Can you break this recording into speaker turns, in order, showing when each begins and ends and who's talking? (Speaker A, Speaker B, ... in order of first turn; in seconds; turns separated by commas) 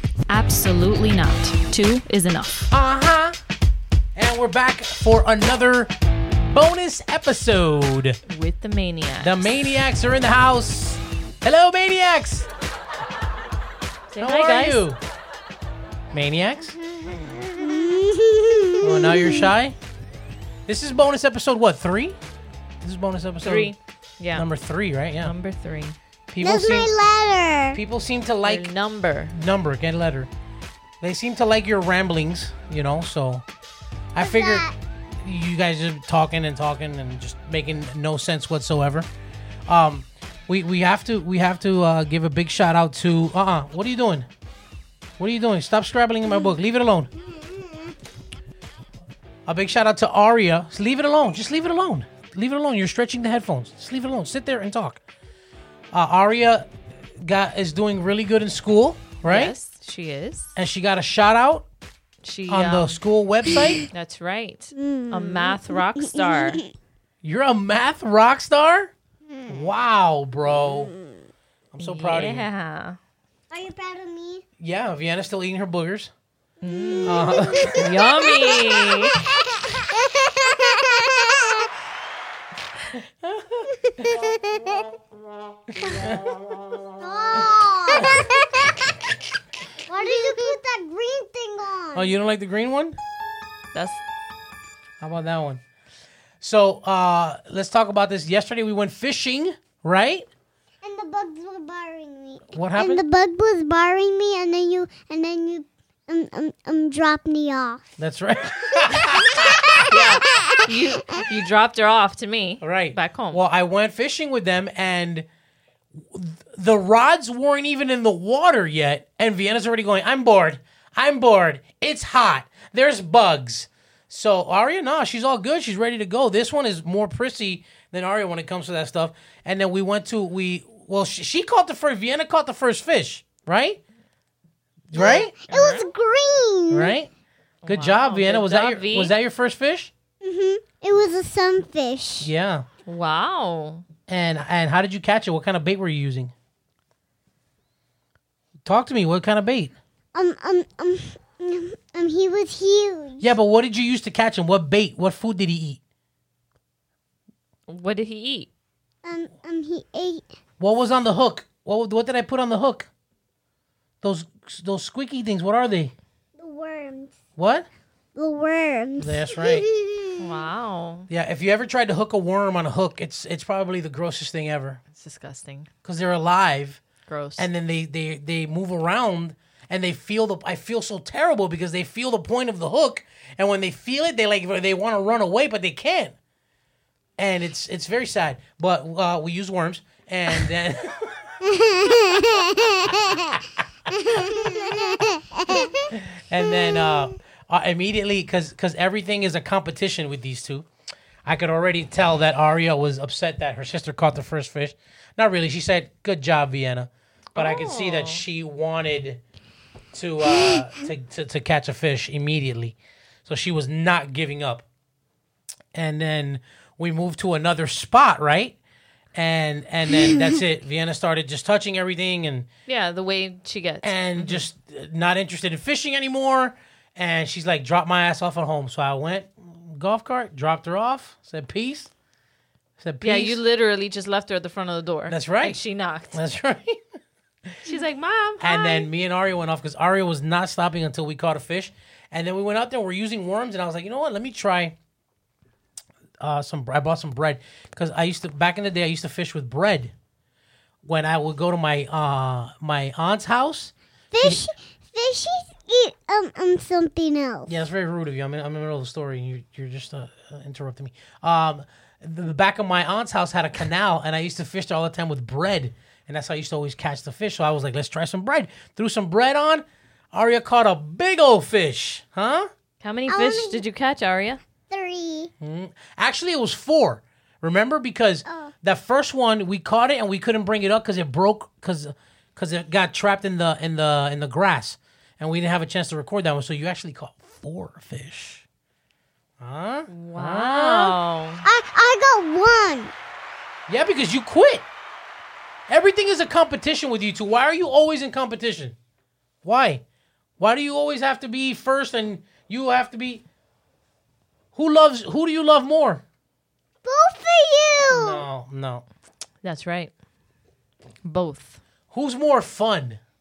Speaker A: 0.3-2.7, Speaker B: 2.7-3.4, Speaker B: 4.2-5.9, Speaker B: 6.5-8.2, Speaker A: 8.3-9.5, Speaker B: 9.2-12.5, Speaker A: 14.1-14.8, Speaker B: 14.2-15.0, Speaker B: 16.1-16.8, Speaker C: 17.5-19.5, Speaker B: 18.8-19.8, Speaker B: 20.7-22.2, Speaker B: 22.8-23.7, Speaker A: 23.4-24.5, Speaker B: 24.4-25.3, Speaker A: 25.2-26.0, Speaker B: 26.3-26.9, Speaker C: 26.4-27.8, Speaker B: 27.7-28.7, Speaker A: 28.4-29.4, Speaker B: 29.3-30.3, Speaker B: 31.0-33.4, Speaker B: 34.1-34.7, Speaker C: 34.2-34.8, Speaker B: 35.2-39.1, Speaker B: 39.7-44.3, Speaker B: 45.2-47.1, Speaker C: 47.2-47.9, Speaker B: 49.5-55.0, Speaker B: 55.9-59.5, Speaker A: 59.3-60.5, Speaker B: 60.6-61.6, Speaker A: 62.2-63.0, Speaker B: 62.5-63.9, Speaker A: 63.9-66.6, Speaker C: 64.8-66.7, Speaker B: 67.2-68.9, Speaker C: 69.3-69.7, Speaker B: 69.5-70.9, Speaker C: 70.6-71.2, Speaker B: 71.7-72.5, Speaker A: 71.8-73.0, Speaker C: 73.5-74.4, Speaker B: 74.6-76.1, Speaker A: 76.6-79.2, Speaker C: 76.7-81.7, Speaker B: 77.1-77.9, Speaker B: 83.0-84.3, Speaker C: 84.1-84.6, Speaker B: 85.7-88.3, Speaker C: 87.0-88.8, Speaker C: 89.9-92.1, Speaker B: 91.9-93.0, Speaker A: 93.7-94.0, Speaker B: 95.0-95.6, Speaker B: 96.4-100.3, Speaker C: 100.8-107.8, Speaker B: 102.5-103.0, Speaker B: 108.0-109.8, Speaker C: 108.8-109.8, Speaker A: 109.9-113.4, Speaker B: 112.6-115.3, Speaker B: 116.0-133.8, Speaker B: 134.9-135.3, Speaker C: 134.9-137.0, Speaker A: 135.5-135.9, Speaker B: 136.7-137.1, Speaker A: 137.6-139.1, Speaker B: 137.7-139.9, Speaker C: 140.2-142.3, Speaker B: 142.2-142.7, Speaker A: 142.9-143.8, Speaker B: 144.1-146.3, Speaker B: 148.6-149.8, Speaker C: 150.1-153.3, Speaker B: 153.2-155.8, Speaker A: 157.7-158.5, Speaker C: 159.0-160.3, Speaker B: 160.6-162.9, Speaker B: 164.0-165.9, Speaker C: 166.4-167.2, Speaker B: 167.4-167.7, Speaker C: 168.2-170.2, Speaker B: 169.0-169.7, Speaker A: 170.2-171.1, Speaker B: 171.1-174.8, Speaker A: 174.9-175.7, Speaker B: 175.8-176.8, Speaker A: 177.1-177.5, Speaker B: 177.4-186.2, Speaker B: 187.2-191.4, Speaker C: 191.5-193.4, Speaker B: 191.9-192.3, Speaker C: 194.0-195.9, Speaker B: 195.5-200.7, Speaker C: 196.6-197.1, Speaker B: 201.3-209.2, Speaker A: 207.4-208.2, Speaker B: 209.9-214.6, Speaker B: 215.7-218.6, Speaker B: 219.1-222.5, Speaker A: 222.7-224.4, Speaker B: 223.8-231.9, Speaker B: 232.8-233.4, Speaker A: 233.0-236.2, Speaker B: 235.1-235.6, Speaker B: 236.1-236.8, Speaker A: 237.7-238.9, Speaker B: 238.4-244.8, Speaker B: 246.2-249.9, Speaker B: 250.8-254.4, Speaker C: 254.1-257.6, Speaker B: 257.5-272.5, Speaker A: 272.8-274.4, Speaker C: 273.1-273.6, Speaker C: 274.7-275.3, Speaker B: 275.4-288.4, Speaker C: 278.3-278.5, Speaker B: 289.4-291.0, Speaker A: 289.9-291.4, Speaker C: 291.4-292.9, Speaker B: 293.7-294.6, Speaker B: 295.7-298.8, Speaker B: 299.4-299.8, Speaker B: 300.4-303.2, Speaker B: 304.5-306.0, Speaker C: 306.9-308.2, Speaker B: 307.9-308.8, Speaker A: 309.4-309.9, Speaker A: 311.0-311.6, Speaker B: 311.9-313.0